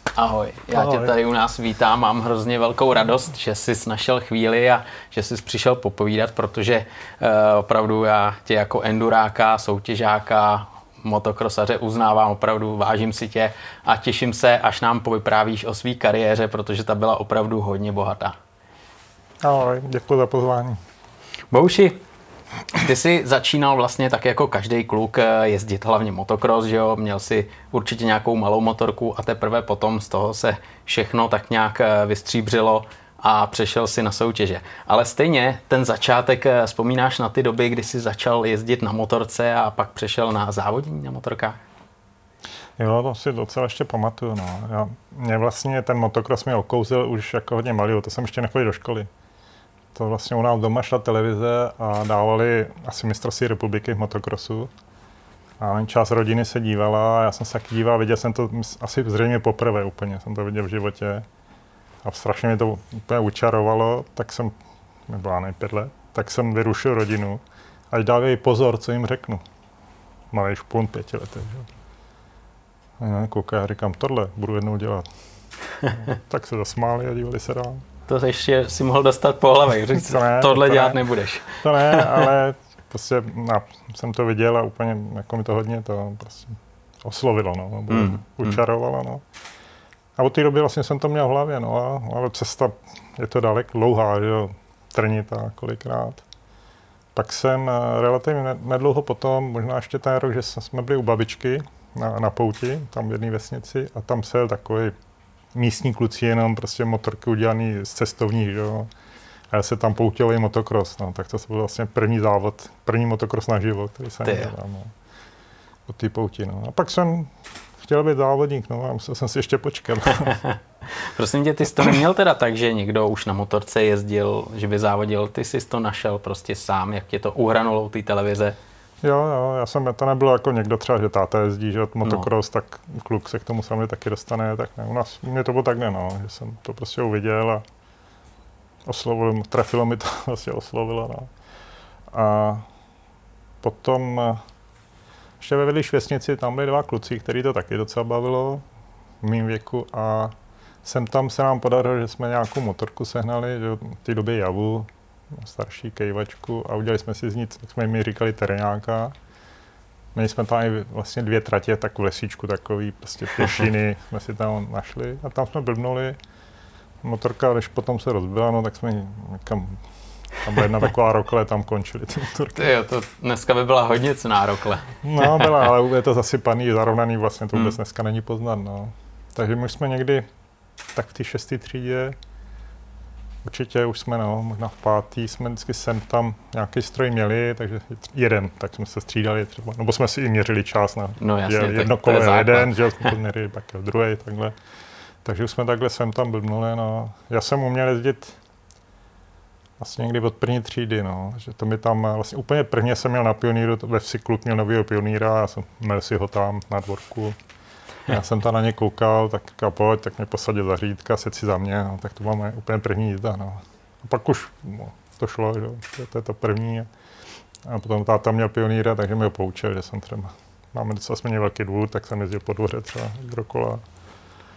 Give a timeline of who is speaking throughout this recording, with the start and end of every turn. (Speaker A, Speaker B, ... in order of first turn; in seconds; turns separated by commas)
Speaker A: 0.1-18.4, Speaker B: 0.7-1.1, Speaker B: 19.4-20.8, Speaker A: 21.5-22.0, Speaker A: 22.7-41.6, Speaker B: 42.8-49.1, Speaker B: 49.9-54.7, Speaker B: 55.6-61.3, Speaker B: 62.0-64.5, Speaker B: 65.1-69.4, Speaker B: 70.3-71.7, Speaker B: 73.0-75.1, Speaker B: 75.9-77.9, Speaker A: 78.1-82.3, Speaker B: 80.0-89.2, Speaker A: 87.9-88.6, Speaker B: 90.2-96.2, Speaker B: 97.2-105.0, Speaker B: 105.5-108.9, Speaker B: 109.5-114.9, Speaker A: 114.2-114.5, Speaker B: 115.9-120.4, Speaker A: 120.2-128.6, Speaker B: 129.0-137.6, Speaker B: 138.9-141.3, Speaker B: 142.1-142.7, Speaker B: 143.6-144.4, Speaker B: 145.4-148.6, Speaker B: 149.2-159.2, Speaker B: 160.2-166.2, Speaker B: 167.0-169.8, Speaker B: 170.4-172.7, Speaker A: 172.6-175.6, Speaker B: 175.0-180.3, Speaker B: 180.9-182.2, Speaker B: 183.4-194.6, Speaker A: 191.2-193.1, Speaker B: 195.2-198.4, Speaker B: 199.8-207.4, Speaker B: 208.1-216.9, Speaker B: 217.6-223.8